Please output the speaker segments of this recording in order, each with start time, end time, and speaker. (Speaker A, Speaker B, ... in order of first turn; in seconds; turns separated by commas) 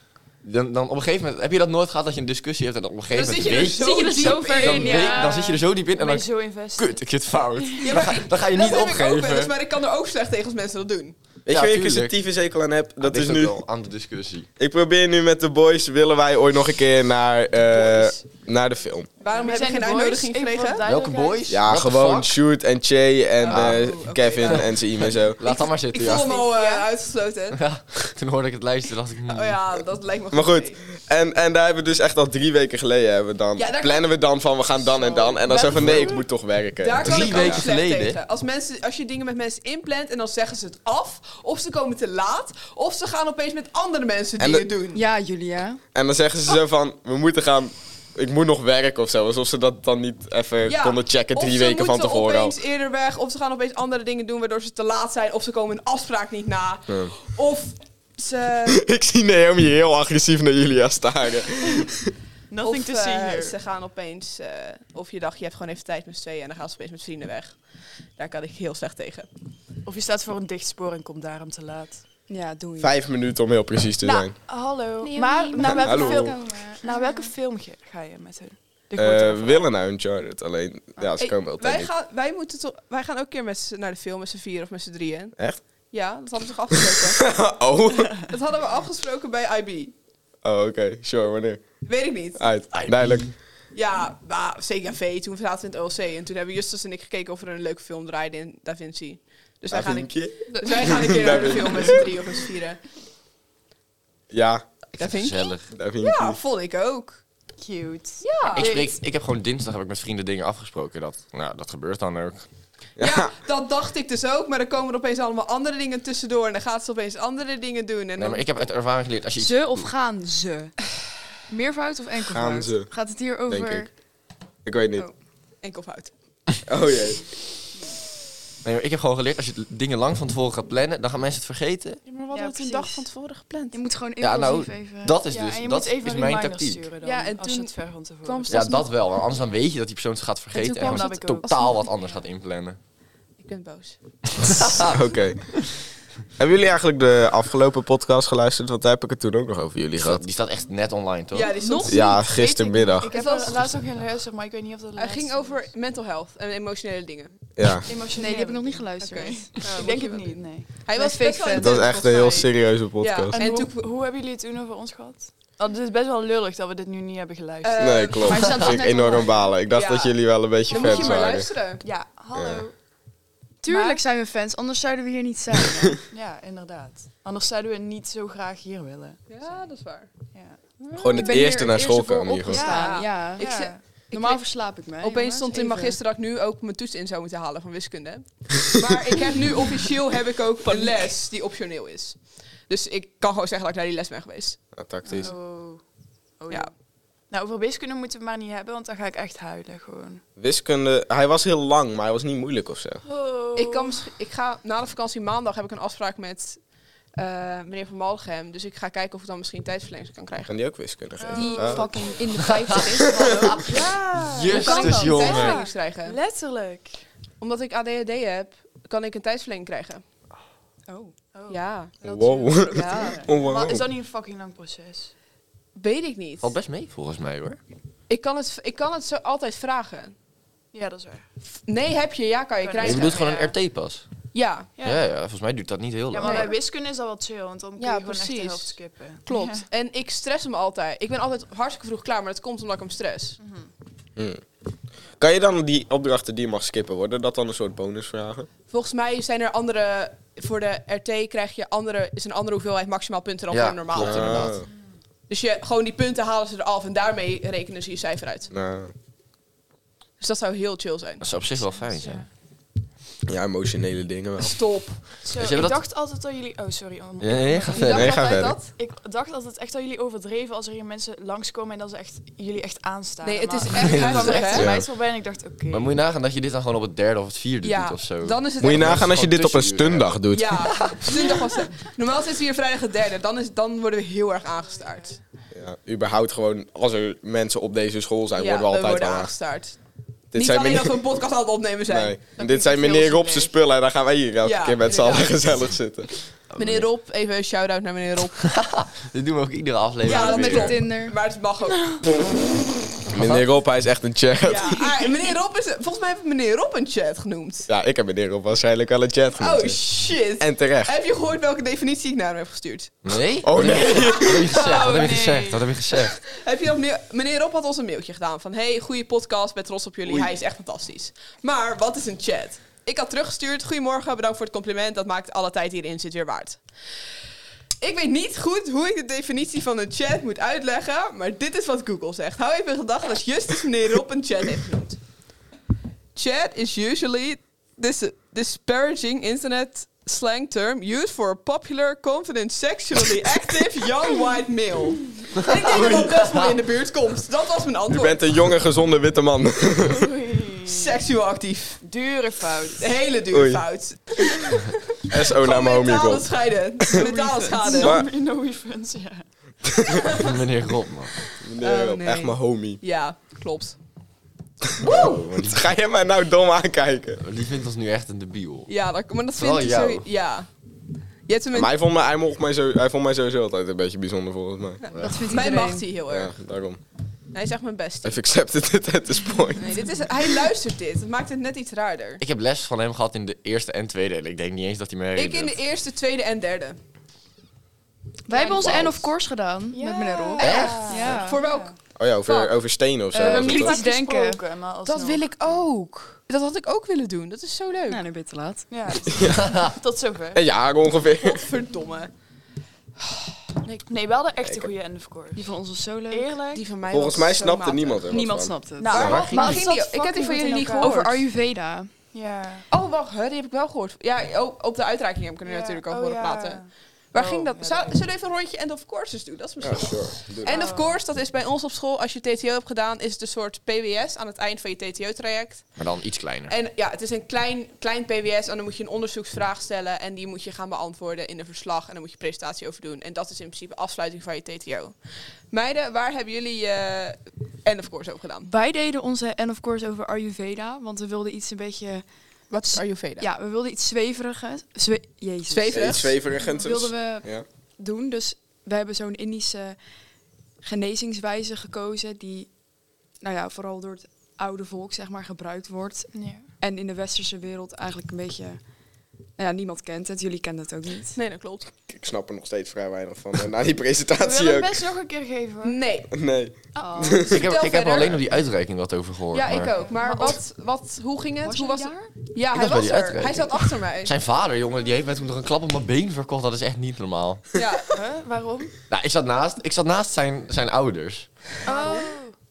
Speaker A: 0.4-9.5, Speaker B: 3.1-5.2, Speaker C: 3.7-5.6, Speaker D: 5.1-8.1, Speaker B: 7.8-11.1, Speaker E: 11.4-13.6, Speaker A: 11.5-12.2, Speaker A: 13.0-14.5, Speaker E: 14.6-19.1, Speaker B: 19.2-20.9, Speaker D: 19.3-21.6, Speaker A: 20.9-22.4, Speaker E: 21.5-25.4, Speaker B: 23.4-24.7, Speaker A: 23.5-23.8, Speaker A: 24.4-26.3, Speaker B: 25.4-27.6, Speaker D: 26.0-26.9, Speaker A: 27.5-29.6, Speaker B: 29.3-30.8, Speaker E: 30.3-37.6, Speaker B: 33.5-35.4, Speaker D: 35.4-36.3, Speaker B: 36.8-45.0, Speaker A: 37.0-38.2, Speaker E: 44.4-44.6, Speaker C: 44.9-45.8, Speaker E: 45.9-52.5, Speaker B: 50.6-58.8, Speaker E: 58.7-62.1, Speaker D: 62.5-63.5, Speaker B: 62.6-67.6, Speaker B: 68.2-69.3, Speaker D: 69.8-72.0, Speaker C: 72.3-72.9, Speaker E: 72.8-74.3, Speaker D: 74.0-79.7, Speaker C: 75.0-77.3, Speaker E: 75.8-76.3, Speaker E: 79.0-81.9, Speaker B: 81.2-85.3, Speaker B: 85.9-87.4, Speaker E: 86.9-88.2, Speaker B: 88.2-89.9, Speaker E: 90.4-91.6, Speaker B: 91.8-92.5, Speaker E: 92.3-93.3, Speaker A: 92.7-93.3, Speaker B: 93.7-102.8, Speaker E: 99.7-102.0, Speaker E: 104.3-104.6, Speaker B: 105.0-107.2, Speaker A: 105.0-105.7, Speaker E: 105.7-106.4, Speaker D: 107.6-109.0, Speaker B: 108.2-108.7, Speaker A: 108.5-112.5, Speaker E: 113.0-113.3, Speaker B: 113.0-118.4, Speaker A: 118.2-119.9, Speaker C: 119.3-120.7, Speaker C: 121.5-123.9, Speaker E: 122.3-122.9, Speaker E: 123.5-123.9, Speaker E: 124.6-125.1, Speaker B: 125.6-126.1, Speaker E: 126.7-127.2, Speaker A: 128.6-132.0, Speaker B: 132.1-133.8, Speaker C: 132.3-133.1, Speaker C: 133.7-135.2, Speaker A: 134.2-136.9, Speaker D: 135.2-138.8, Speaker B: 137.0-138.9, Speaker A: 138.5-142.8, Speaker B: 140.5-141.8, Speaker C: 140.8-141.5, Speaker D: 140.8-141.4, Speaker B: 143.4-144.0, Speaker A: 144.4-145.0, Speaker E: 144.8-145.4, Speaker E: 146.4-150.2, Speaker A: 150.0-151.5, Speaker B: 151.3-152.2, Speaker D: 151.6-155.7, Speaker E: 151.8-153.1, Speaker B: 153.1-153.8, Speaker B: 155.0-157.4, Speaker E: 157.6-157.9, Speaker D: 157.8-160.9, Speaker C: 158.1-159.8, Speaker B: 159.0-163.9, Speaker C: 160.9-161.9, Speaker E: 161.6-163.3, Speaker D: 163.3-169.5, Speaker B: 167.6-168.6, Speaker E: 167.8-171.5, Speaker C: 168.8-169.1, Speaker B: 169.7-171.8, Speaker D: 170.7-171.3, Speaker D: 171.8-172.7, Speaker E: 172.3-172.6, Speaker C: 173.6-176.0, Speaker D: 173.6-174.0, Speaker D: 176.1-179.7, Speaker B: 179.3-180.1, Speaker D: 180.3-180.6, Speaker B: 180.8-181.7, Speaker E: 180.9-182.7, Speaker C: 181.1-186.0, Speaker B: 182.5-184.4, Speaker D: 182.5-183.8, Speaker B: 185.0-194.6, Speaker D: 190.7-191.0, Speaker E: 194.7-195.3, Speaker D: 195.1-195.8, Speaker D: 196.4-196.7, Speaker D: 197.3-200.2, Speaker E: 200.4-203.0, Speaker D: 203.1-204.0, Speaker B: 203.5-206.6, Speaker B: 207.2-210.5, Speaker E: 210.4-211.9, Speaker D: 211.2-212.2, Speaker B: 211.3-211.8, Speaker C: 211.3-213.8, Speaker A: 212.3-212.9, Speaker D: 213.0-217.0, Speaker A: 214.2-215.6, Speaker B: 214.5-216.2, Speaker C: 214.8-215.4, Speaker B: 217.4-220.0, Speaker C: 220.9-221.1, Speaker D: 221.3-225.1, Speaker B: 221.5-221.9, Speaker E: 222.0-223.8, Speaker C: 222.1-223.2, Speaker B: 222.7-223.2, Speaker B: 225.8-226.5, Speaker A: 226.4-227.6, Speaker B: 228.1-230.1, Speaker D: 230.7-231.2, Speaker B: 231.7-233.4, Speaker D: 232.6-233.5, Speaker A: 232.8-234.1, Speaker B: 234.3-234.7, Speaker A: 234.8-236.5, Speaker D: 236.1-239.7, Speaker B: 236.2-236.5, Speaker B: 237.8-243.4, Speaker D: 243.4-243.7, Speaker E: 244.2-244.4, Speaker E: 245.2-248.5, Speaker B: 248.7-254.5, Speaker A: 253.5-254.6, Speaker E: 253.9-254.7, Speaker B: 255.3-258.5, Speaker E: 258.5-258.9, Speaker B: 260.2-261.2, Speaker A: 261.2-262.2, Speaker E: 263.3-264.6, Speaker B: 264.4-265.0, Speaker D: 265.2-275.9, Speaker A: 265.3-265.8, Speaker A: 267.2-268.2, Speaker B: 267.7-268.3, Speaker E: 267.8-268.6, Speaker B: 273.2-274.7, Speaker A: 273.8-274.4, Speaker E: 274.2-274.9, Speaker A: 275.7-280.1, Speaker B: 277.6-279.1, Speaker E: 278.6-281.1, Speaker B: 280.3-285.2, Speaker E: 285.5-289.3, Speaker B: 288.4-289.8, Speaker E: 290.3-291.0, Speaker B: 290.3-292.2, Speaker E: 291.9-296.1, Speaker D: 292.4-293.6, Speaker B: 294.4-295.2, Speaker D: 294.9-295.3, Speaker A: 296.5-296.9, Speaker B: 296.6-298.5, Speaker A: 298.4-300.8, Speaker B: 300.0-301.8, Speaker C: 300.1-301.2, Speaker A: 303.1-303.4, Speaker E: 303.1-304.9, Speaker B: 304.4-307.7, Speaker E: 307.7-309.8, Speaker B: 309.4-312.9, Speaker E: 310.4-310.9, Speaker A: 313.0-316.2, Speaker E: 313.4-314.5, Speaker B: 314.0-315.0, Speaker D: 314.5-315.6, Speaker B: 316.3-326.6, Speaker B: 327.8-335.0, Speaker B: 336.1-348.2, Speaker A: 345.5-346.4, Speaker E: 345.7-346.1, Speaker E: 347.9-350.1, Speaker D: 349.8-351.0, Speaker B: 350.7-351.8, Speaker D: 351.8-352.9, Speaker B: 352.8-358.0, Speaker E: 353.3-353.6, Speaker E: 355.1-356.9, Speaker D: 356.9-360.1, Speaker E: 357.7-358.1, Speaker B: 360.0-360.3, Speaker A: 360.2-361.2, Speaker E: 361.4-362.8, Speaker B: 361.6-363.8, Speaker E: 364.8-367.2, Speaker B: 364.8-365.2, Speaker A: 364.9-365.6, Speaker A: 367.2-368.7, Speaker B: 368.7-370.5, Speaker A: 369.4-370.1, Speaker B: 371.3-371.7, Speaker E: 371.5-374.8, Speaker B: 374.9-376.4, Speaker A: 374.9-375.3, Speaker C: 375.0-375.9, Speaker E: 376.1-376.8, Speaker B: 377.3-378.2, Speaker E: 378.0-380.0, Speaker B: 379.6-382.2, Speaker A: 382.2-385.5, Speaker B: 385.1-386.8, Speaker C: 388.3-391.4, Speaker D: 388.3-388.9, Speaker D: 389.7-391.7, Speaker A: 390.4-391.2, Speaker B: 390.9-392.6, Speaker E: 391.9-393.8, Speaker C: 393.1-394.4, Speaker D: 393.1-395.2, Speaker B: 394.9-398.0, Speaker C: 397.9-398.9, Speaker D: 398.7-400.4, Speaker E: 399.1-399.6, Speaker A: 399.3-399.7, Speaker E: 400.3-401.4, Speaker B: 401.2-402.1, Speaker B: 403.6-403.9, Speaker D: 403.9-405.5, Speaker E: 404.4-404.7, Speaker C: 405.3-406.3, Speaker D: 406.1-406.6, Speaker B: 406.5-408.1, Speaker E: 406.9-409.3, Speaker C: 408.1-412.0, Speaker D: 408.8-411.2, Speaker B: 408.8-411.2, Speaker D: 412.1-412.6, Speaker B: 412.7-425.6, Speaker D: 415.4-417.9, Speaker E: 419.6-420.6, Speaker D: 420.4-421.0, Speaker A: 425.8-426.5, Speaker B: 426.5-434.9, Speaker B: 435.5-438.5, Speaker C: 438.4-442.1, Speaker B: 442.5-443.3, Speaker C: 442.6-449.8, Speaker B: 445.5-446.2, Speaker E: 445.7-447.4, Speaker C: 450.6-452.6, Speaker C: 453.2-458.6, Speaker D: 456.1-456.5, Speaker C: 459.4-461.2, Speaker B: 461.1-461.7, Speaker E: 461.9-464.8, Speaker D: 464.2-465.8, Speaker B: 465.6-466.1, Speaker E: 466.1-467.2, Speaker C: 466.7-467.5, Speaker B: 467.2-468.2, Speaker A: 467.3-469.7, Speaker B: 469.3-474.1, Speaker D: 469.8-470.4, Speaker C: 470.0-470.3, Speaker C: 471.4-472.1, Speaker A: 472.5-477.5, Speaker B: 477.5-477.8, Speaker D: 477.9-478.7, Speaker A: 478.9-481.3, Speaker C: 481.6-482.2, Speaker D: 481.6-482.3